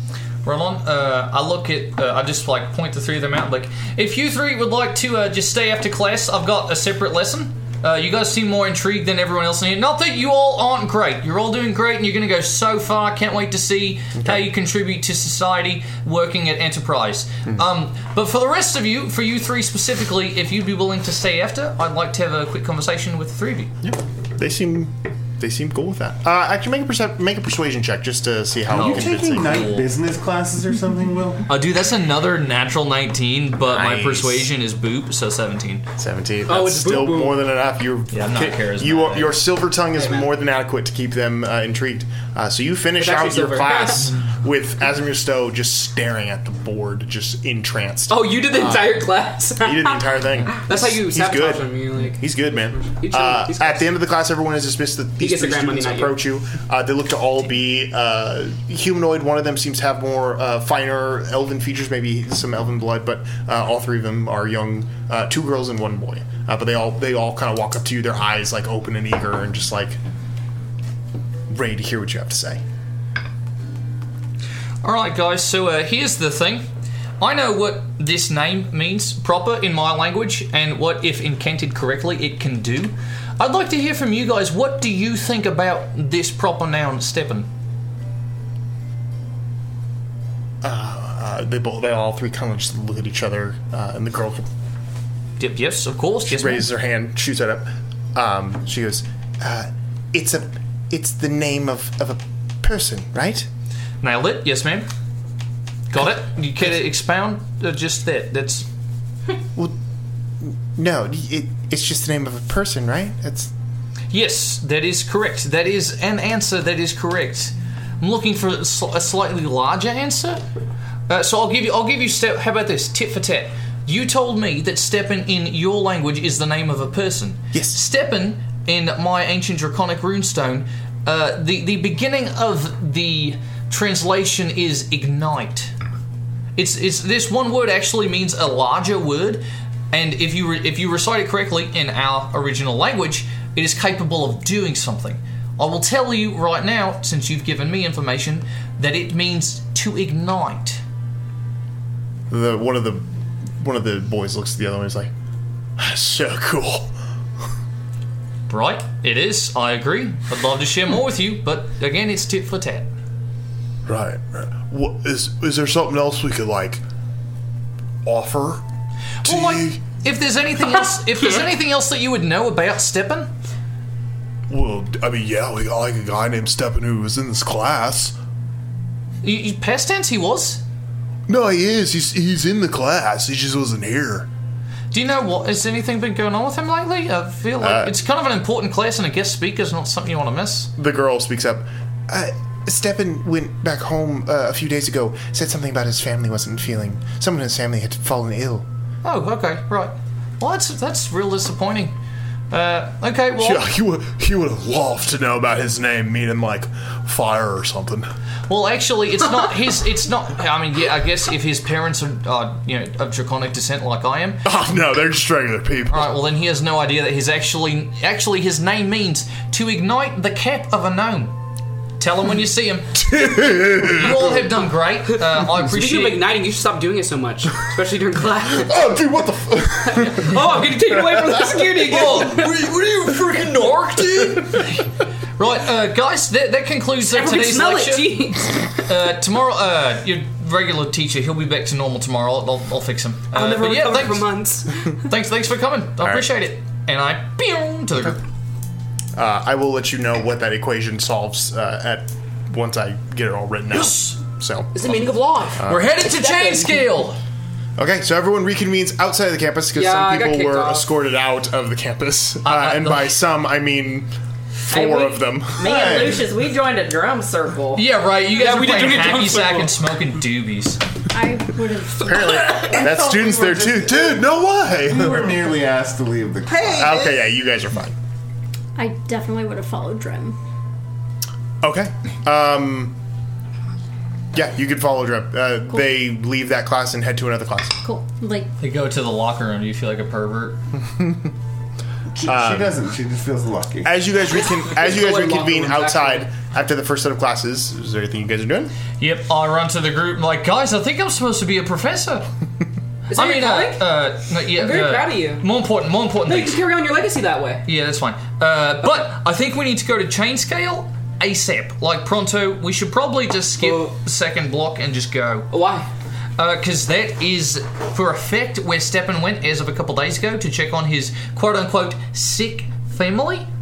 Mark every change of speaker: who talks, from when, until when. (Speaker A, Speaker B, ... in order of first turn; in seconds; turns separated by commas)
Speaker A: 0.4-23.7, Speaker B: 14.2-14.4, Speaker B: 23.8-29.7, Speaker A: 28.7-29.9, Speaker C: 28.7-31.4, Speaker A: 31.5-35.9, Speaker B: 33.6-34.5, Speaker B: 36.0-70.0, Speaker D: 36.5-37.4, Speaker A: 38.1-39.4, Speaker D: 43.0-44.1, Speaker D: 48.1-53.9, Speaker D: 55.2-56.2, Speaker B: 71.5-72.6, Speaker A: 74.8-76.7, Speaker A: 77.2-87.5, Speaker B: 90.6-94.5, Speaker A: 95.4-96.7, Speaker B: 96.3-103.5, Speaker A: 104.0-104.9, Speaker A: 105.9-108.7, Speaker B: 110.4-113.5, Speaker A: 114.1-120.4, Speaker A: 121.1-135.7, Speaker B: 127.5-127.8, Speaker A: 136.6-150.8, Speaker B: 152.3-153.1, Speaker B: 153.6-155.1, Speaker B: 155.8-156.9, Speaker A: 158.5-162.9, Speaker B: 163.9-166.8, Speaker B: 168.1-168.6, Speaker A: 169.2-173.3, Speaker B: 169.2-169.8, Speaker B: 174.5-178.2, Speaker A: 179.2-180.6, Speaker B: 181.3-184.3, Speaker A: 184.9-190.7, Speaker B: 187.6-187.9, Speaker B: 190.8-198.7, Speaker A: 199.0-201.9, Speaker A: 202.5-203.7, Speaker B: 203.4-208.1, Speaker A: 208.5-214.4, Speaker B: 214.4-216.1, Speaker A: 215.9-221.3, Speaker A: 222.0-226.3, Speaker B: 223.0-224.2, Speaker D: 225.4-228.9, Speaker B: 228.6-230.3, Speaker D: 229.8-232.6, Speaker B: 230.9-231.6, Speaker A: 231.8-244.3, Speaker D: 236.9-238.7, Speaker D: 243.3-244.9, Speaker A: 245.1-248.2, Speaker B: 249.2-255.0, Speaker A: 253.7-254.2, Speaker D: 254.7-256.7, Speaker B: 255.6-255.9, Speaker A: 255.6-257.2, Speaker B: 257.8-264.1, Speaker D: 259.7-260.9, Speaker A: 262.4-263.2, Speaker B: 264.7-265.9, Speaker E: 264.7-267.8, Speaker C: 265.6-266.3, Speaker A: 267.7-270.8, Speaker D: 268.3-269.8, Speaker F: 271.1-273.0, Speaker B: 272.0-275.3, Speaker C: 272.9-277.0, Speaker B: 276.7-277.9, Speaker F: 278.8-280.4, Speaker B: 281.6-282.9, Speaker B: 284.3-287.8, Speaker F: 287.8-288.5, Speaker A: 288.6-290.6, Speaker B: 290.8-291.3, Speaker C: 292.2-293.9, Speaker B: 292.2-292.8, Speaker B: 293.8-298.7, Speaker D: 294.6-296.3, Speaker A: 299.0-302.3, Speaker D: 303.1-303.9, Speaker A: 303.1-306.6, Speaker D: 304.5-305.5, Speaker D: 306.2-307.6, Speaker A: 307.7-315.5, Speaker D: 313.6-314.0, Speaker D: 315.5-315.9, Speaker A: 316.4-323.5